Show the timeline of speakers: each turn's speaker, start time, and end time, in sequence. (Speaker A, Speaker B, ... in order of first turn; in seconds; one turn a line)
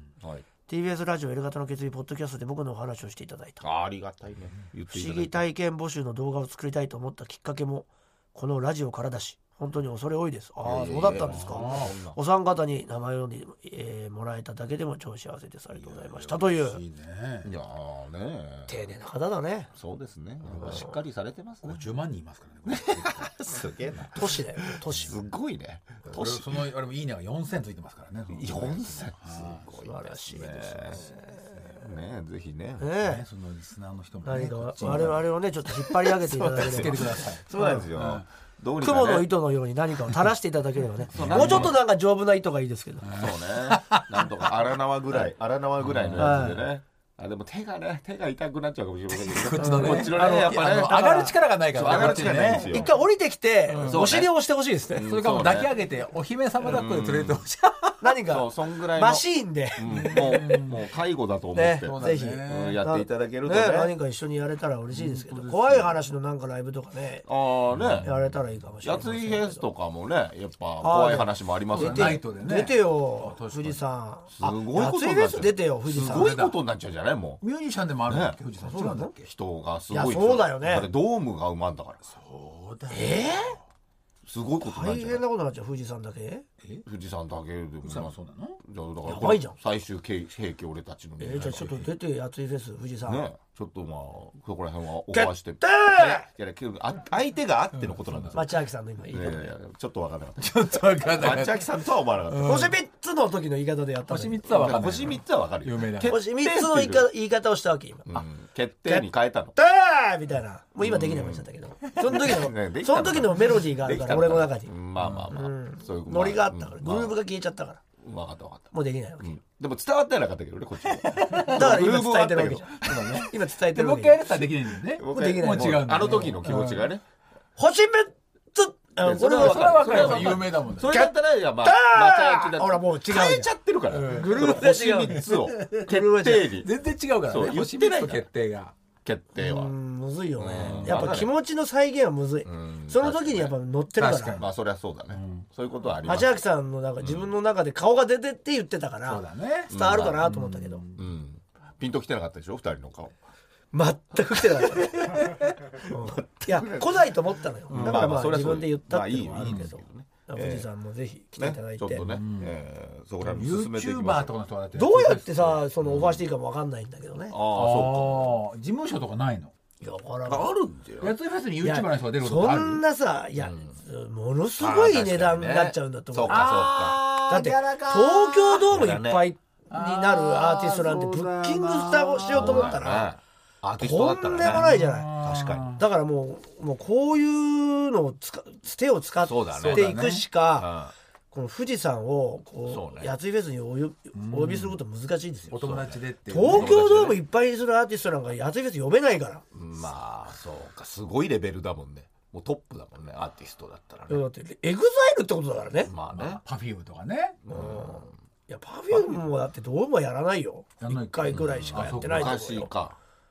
Speaker A: 0.7-3.6
Speaker B: 3.6-5.4
Speaker A: 4.9-16.8
Speaker B: 10.6-12.2
Speaker C: 11.0-11.9
Speaker C: 15.7-17.5
Speaker B: 17.4-18.8
Speaker A: 18.7-19.7
Speaker B: 19.7-21.8
Speaker C: 20.4-20.9
Speaker A: 20.6-20.9
Speaker C: 21.6-24.1
Speaker B: 22.6-26.5
Speaker A: 24.1-25.2
Speaker C: 26.0-29.6
Speaker B: 28.3-33.0
Speaker A: 29.8-31.6
Speaker A: 32.8-33.2
Speaker C: 33.0-35.3
Speaker A: 34.2-37.9
Speaker B: 34.8-35.1
Speaker B: 35.9-39.3
Speaker C: 36.5-38.2
Speaker A: 38.8-43.2
Speaker C: 41.1-41.8
Speaker B: 41.1-41.8
Speaker C: 43.0-44.3
Speaker B: 43.1-51.1
Speaker C: 45.8-46.5
Speaker A: 46.1-46.6
Speaker C: 49.1-52.9
Speaker A: 49.5-55.1
Speaker B: 51.7-52.9
Speaker C: 53.7-54.1
Speaker B: 53.8-54.3
Speaker B: 54.9-55.7
Speaker C: 55.0-58.1
Speaker B: 56.6-57.4
Speaker A: 58.0-60.4
Speaker B: 58.3-63.9
Speaker C: 59.8-60.8
Speaker A: 61.5-67.2
Speaker C: 61.8-62.8
Speaker C: 64.9-65.8
Speaker B: 65.4-65.9
Speaker B: 67.2-68.2
Speaker C: 67.7-68.3
Speaker A: 68.0-69.7
Speaker B: 68.8-72.2
Speaker A: 70.8-76.4
Speaker C: 71.7-73.8
Speaker B: 74.3-77.4
Speaker C: 76.0-76.6
Speaker C: 77.4-79.3
Speaker B: 78.0-78.4
Speaker A: 78.6-79.1
Speaker B: 79.2-82.1
Speaker A: 79.9-80.9
Speaker C: 82.1-83.6
Speaker A: 82.9-83.6
Speaker B: 84.2-85.2
Speaker A: 84.6-86.5
Speaker B: 86.8-91.9
Speaker C: 87.8-88.6
Speaker A: 89.0-89.5
Speaker A: 91.2-93.2
Speaker B: 93.0-98.5
Speaker A: 95.1-96.3
Speaker C: 97.8-98.5
Speaker A: 98.3-99.5
Speaker B: 99.1-100.5
Speaker C: 100.4-102.8
Speaker B: 101.0-102.7
Speaker A: 102.4-104.4
Speaker C: 104.0-106.2
Speaker B: 104.5-107.1
Speaker A: 106.0-108.1
Speaker B: 108.0-109.5
Speaker A: 108.8-114.7
Speaker B: 110.8-117.2
Speaker C: 115.0-115.3
Speaker A: 115.3-117.8
Speaker B: 118.0-123.2
Speaker A: 118.7-119.3
Speaker C: 121.0-121.8
Speaker A: 121.4-124.3
Speaker C: 122.8-126.9
Speaker B: 125.0-127.0
Speaker A: 125.1-125.9
Speaker A: 127.6-133.5
Speaker B: 129.0-136.7
Speaker C: 129.1-131.0
Speaker C: 133.9-134.5
Speaker A: 134.1-136.5
Speaker C: 135.2-135.9
Speaker C: 136.5-138.7
Speaker B: 137.2-138.3
Speaker B: 139.0-139.7
Speaker A: 139.3-144.4
Speaker B: 140.4-141.3
Speaker C: 140.5-141.3
Speaker B: 142.4-143.5
Speaker C: 144.0-144.5
Speaker B: 144.4-146.4
Speaker C: 145.1-145.5
Speaker A: 146.0-150.8
Speaker B: 147.0-147.3
Speaker C: 149.0-151.0
Speaker B: 149.7-150.2
Speaker B: 150.9-153.1
Speaker A: 153.7-162.1
Speaker B: 155.8-157.1
Speaker C: 157.7-158.2
Speaker B: 157.7-160.7
Speaker C: 159.4-159.7
Speaker B: 161.4-164.4
Speaker C: 161.9-162.6
Speaker C: 163.2-165.6
Speaker A: 164.7-167.4
Speaker B: 165.8-166.2
Speaker B: 167.3-168.4
Speaker C: 167.5-169.5
Speaker A: 169.8-170.5
Speaker B: 170.2-171.1
Speaker C: 171.0-172.8
Speaker A: 171.6-183.1
Speaker B: 173.4-173.8
Speaker B: 174.6-177.1
Speaker C: 176.3-178.8
Speaker B: 178.7-179.2
Speaker C: 179.7-182.9
Speaker B: 182.3-185.7
Speaker A: 183.8-185.1
Speaker C: 184.4-185.8
Speaker A: 185.7-190.7
Speaker B: 189.2-190.0
Speaker C: 189.6-190.2
Speaker B: 190.5-190.9
Speaker A: 191.3-199.4
Speaker B: 192.7-193.1
Speaker C: 194.1-194.8
Speaker C: 195.5-196.8
Speaker B: 196.4-197.2
Speaker B: 199.5-204.2
Speaker A: 204.1-205.9
Speaker B: 205.8-206.4
Speaker C: 206.1-207.4
Speaker B: 207.5-208.1
Speaker A: 207.5-212.7
Speaker B: 208.9-209.2
Speaker C: 210.8-212.4
Speaker B: 211.3-212.9